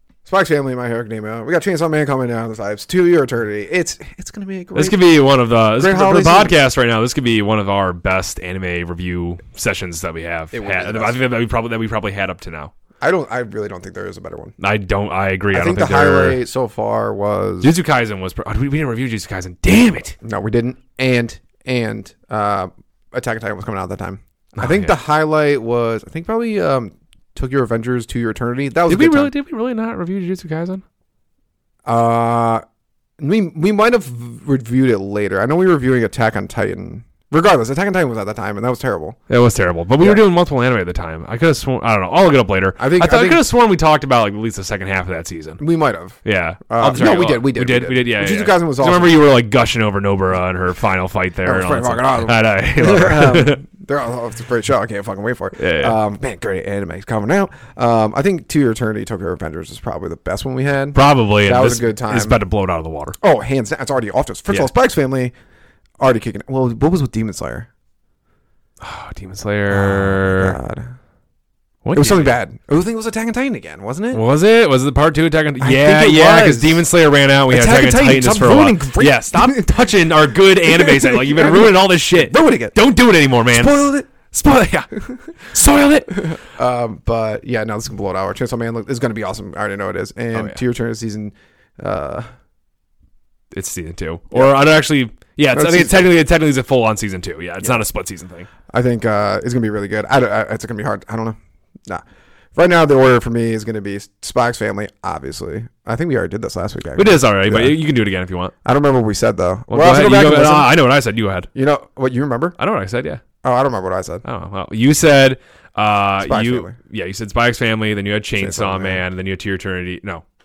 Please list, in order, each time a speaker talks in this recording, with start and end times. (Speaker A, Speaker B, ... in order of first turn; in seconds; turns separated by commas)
Speaker A: 0.2-5.0, Speaker B: 4.8-12.7, Speaker A: 5.8-6.6, Speaker A: 10.5-11.2, Speaker A: 13.0-14.5, Speaker B: 14.6-16.4, Speaker A: 15.5-17.7, Speaker B: 17.6-20.1, Speaker A: 20.2-29.3, Speaker B: 24.6-24.9, Speaker B: 28.9-30.8, Speaker A: 31.9-32.6, Speaker A: 33.2-39.2, Speaker B: 39.3-45.6, Speaker A: 42.8-43.5, Speaker A: 45.6-49.2, Speaker B: 46.2-53.6, Speaker A: 51.4-62.4, Speaker B: 55.6-56.0, Speaker B: 60.9-63.2, Speaker A: 63.2-65.3, Speaker A: 66.0-67.7, Speaker B: 68.8-70.6, Speaker A: 69.7-70.9, Speaker B: 71.8-72.3, Speaker A: 72.0-74.2, Speaker B: 74.1-86.2, Speaker A: 75.6-76.8, Speaker A: 77.5-79.8, Speaker A: 80.7-82.8, Speaker A: 83.5-84.1, Speaker A: 86.2-92.3, Speaker B: 90.3-90.6, Speaker B: 93.5-98.5, Speaker A: 95.5-96.1, Speaker A: 98.7-102.0, Speaker A: 102.5-107.8, Speaker B: 107.0-108.5, Speaker A: 108.6-110.7, Speaker B: 109.7-111.5, Speaker A: 111.5-112.6, Speaker B: 112.6-113.2, Speaker A: 113.4-114.2, Speaker B: 114.2-120.2, Speaker A: 116.2-116.8, Speaker A: 118.4-119.0